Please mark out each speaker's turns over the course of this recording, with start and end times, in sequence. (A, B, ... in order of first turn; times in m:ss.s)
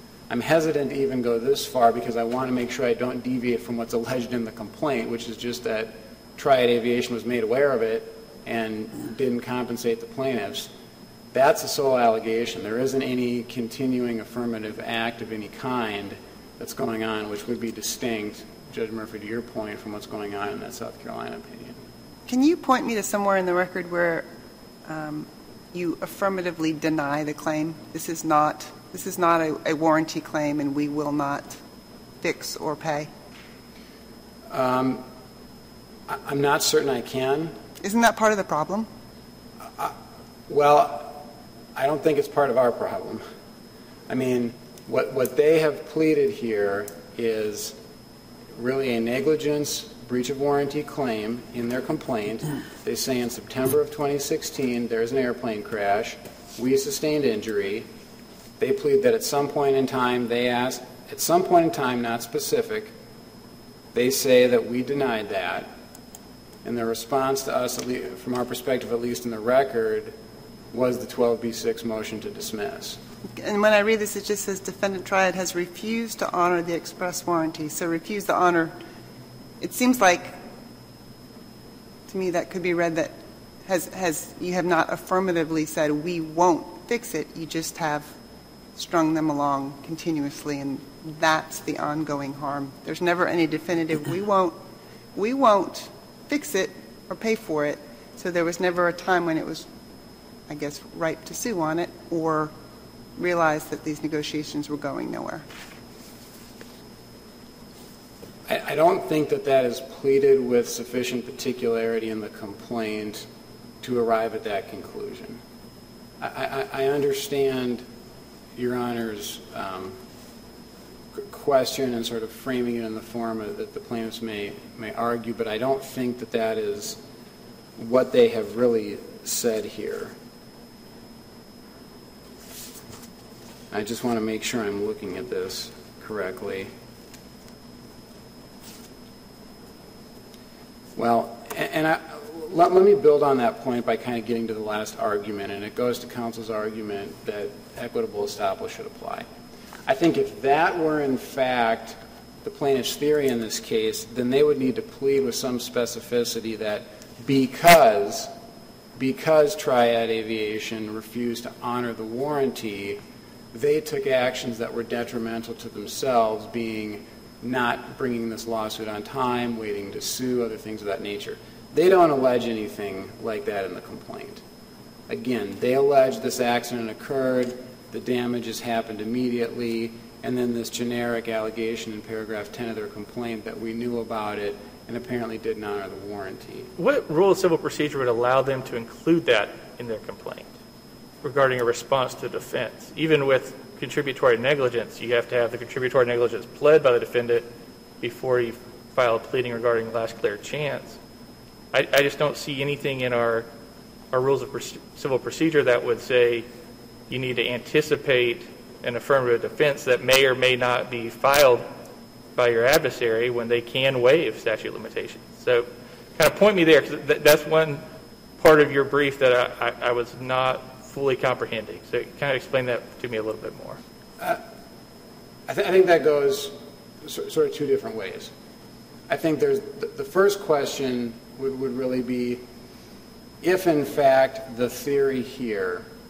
0:00.3-0:10.7 A
0:11.3-0:21.8 A
0:22.3-0:24.3 B
0:24.9-0:31.6 B
0:32.2-0:33.1 B
0:34.5-0:35.1 A
0:36.1-0:37.6 A
0:37.8-0:38.9 B
0:40.5-0:43.3 A
0:44.1-0:47.8 A
0:48.6-0:57.9 A
0:58.6-1:02.9 A
1:03.9-1:05.7 A
1:06.6-1:10.2 A
1:10.7-1:13.0 A
1:13.3-1:18.8 B
1:19.6-1:20.4 B
1:22.1-1:28.2 B
1:28.8-1:34.6 B
1:35.2-1:39.7 B
1:40.5-1:42.5 B
1:43.2-1:45.5 B
1:48.5-1:53.3 A
1:53.8-1:55.4 A
1:56.2-1:57.8 A
1:58.6-2:00.0 A
2:01.2-2:07.0 A
2:07.8-2:10.2 A
2:13.7-2:16.7 A
2:21.0-2:29.3 A
2:29.9-2:38.3 A
2:39.0-2:43.0 A
2:43.5-2:54.4 A
2:55.1-3:06.7 A
3:06.8-3:10.5 C
3:11.2-3:17.5 C
3:18.0-3:21.0 C
3:21.7-3:23.5 C
3:24.1-3:26.5 C
3:27.1-3:31.7 C
3:32.4-3:37.8 C
3:38.4-3:43.8 C
3:45.5-3:48.3 A
3:49.1-3:52.4 A
3:53.4-3:55.9 A